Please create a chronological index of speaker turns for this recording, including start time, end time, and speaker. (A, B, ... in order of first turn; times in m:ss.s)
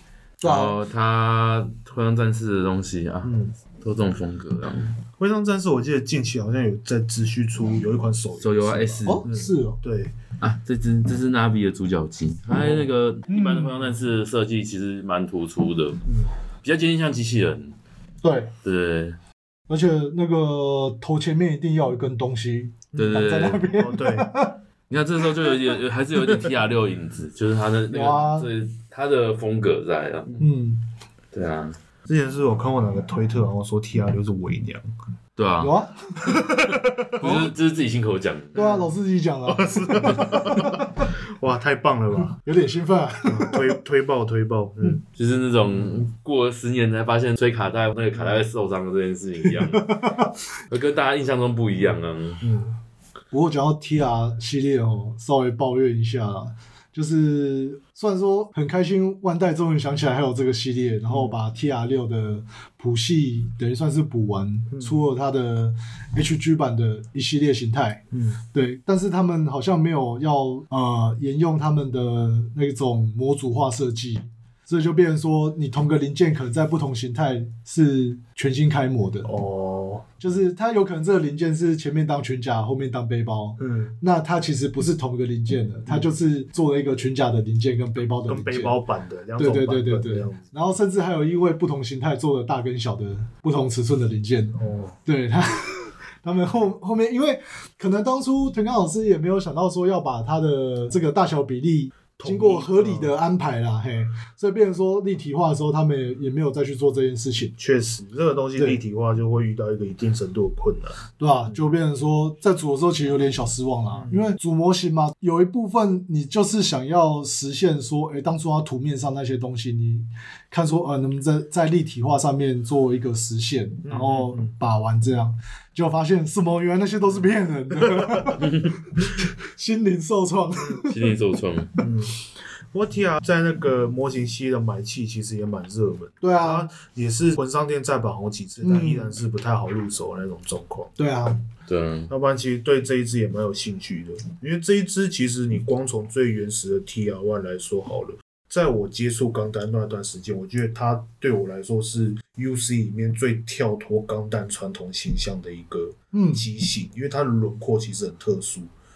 0:00.4-0:00.8 A
0:00.4-0:05.0 B
0:03.2-0:03.6 C
0:05.2-0:10.2 C
0:08.4-0:09.2 B
0:09.1-0:09.8 A
0:10.4-0:16.0 B
0:12.6-0:12.9 C
0:13.3-0:13.7 A
0:16.1-0:16.3 C
0:16.6-0:17.8 B
0:18.2-0:18.5 A
0:18.6-0:19.2 B
0:19.7-0:24.6 A
0:23.0-0:23.7 B
0:23.7-0:24.3 C
0:24.9-0:30.4 B
0:27.9-0:28.5 A
0:30.4-0:30.8 A
0:31.3-0:31.8 B
0:32.1-0:34.8 C
0:35.4-0:35.7 B
0:35.6-0:36.4 A
0:36.3-0:37.2 C
0:37.2-0:38.6 B
0:37.2-0:37.5 A
0:38.6-0:38.9 C
0:38.6-0:40.9 A
0:39.5-0:42.4 C
0:42.4-0:43.6 A
0:43.3-0:45.0 C
0:45.1-0:50.0 B
0:49.7-0:50.3 A
0:50.7-0:52.4 B
0:52.4-0:52.7 C
0:53.3-1:08.0 A
1:01.1-1:01.4 C
1:04.7-1:05.0 C
1:08.1-1:08.4 C
1:08.5-1:19.3 A
1:19.2-1:20.1 C
1:20.2-1:28.8 A
1:23.6-1:24.0 C
1:28.3-1:30.5 C
1:29.4-1:47.6 A
1:34.6-1:35.0 C
1:42.2-1:43.1 C
1:47.6-1:51.6 C
1:51.2-2:08.5 A
1:53.9-1:54.2 C
2:03.8-2:04.5 C
2:08.0-2:08.3 C
2:08.4-2:08.8 B
2:09.5-2:11.1 A
2:10.9-2:11.7 B
2:11.8-2:12.2 C
2:12.7-2:21.3 C
2:16.2-2:16.7 A
2:18.6-2:19.2 A
2:21.0-2:21.4 A
2:21.7-2:22.1 B
2:22.1-2:38.7 C
2:36.1-2:36.5 A